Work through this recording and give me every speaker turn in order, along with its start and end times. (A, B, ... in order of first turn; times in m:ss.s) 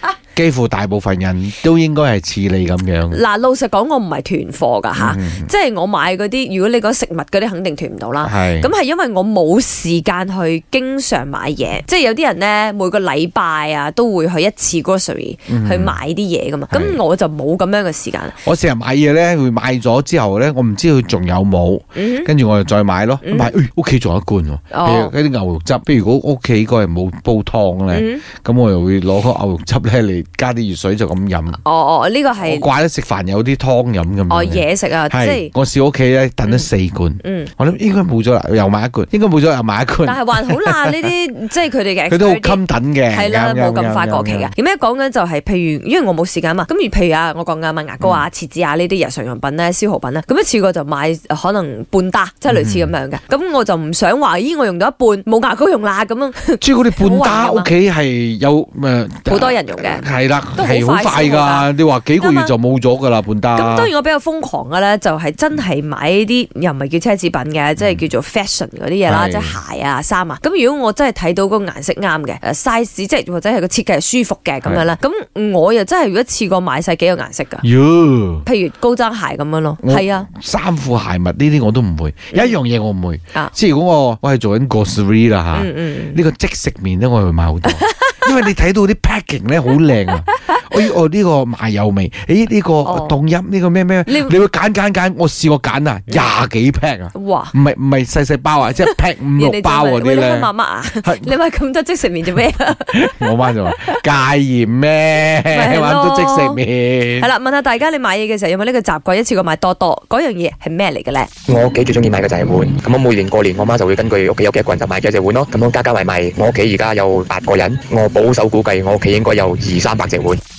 0:00.3-0:03.2 A
0:03.1-0:18.4 B
0:04.9-0:05.5 A
0:08.2-0:08.7 A
0:15.5-0:16.0 A
0:16.7-0:17.0 A
0:18.4-0:31.6 A
0:22.0-0:22.3 B
0:23.2-0:23.5 B
0:24.7-0:25.1 B
0:27.9-0:28.2 B
0:31.6-0:32.6 B
0:32.4-0:41.1 A
0:34.3-0:35.5 B
0:37.2-0:37.5 B
0:40.0-0:42.6 B
0:42.1-0:44.5 A
0:43.1-0:57.7 B
0:52.5-0:52.9 A
0:56.6-1:03.9 A
0:59.3-1:00.0 B
1:00.6-1:01.7 B
1:02.2-1:02.5 B
1:03.6-1:17.6 B
1:09.1-1:09.6 A
1:17.6-1:18.4 A
1:18.4-1:20.3 B
1:19.8-1:40.5 A
1:25.5-1:26.2 B
1:27.8-1:28.2 B
1:32.8-1:33.1 B
1:34.1-1:34.3 B
1:37.1-1:37.5 B
1:38.8-1:44.0 B
1:41.0-1:41.3 A
1:42.9-1:47.3 A
1:45.5-1:46.6 B
1:47.2-1:51.3 B
1:51.5-2:00.4 C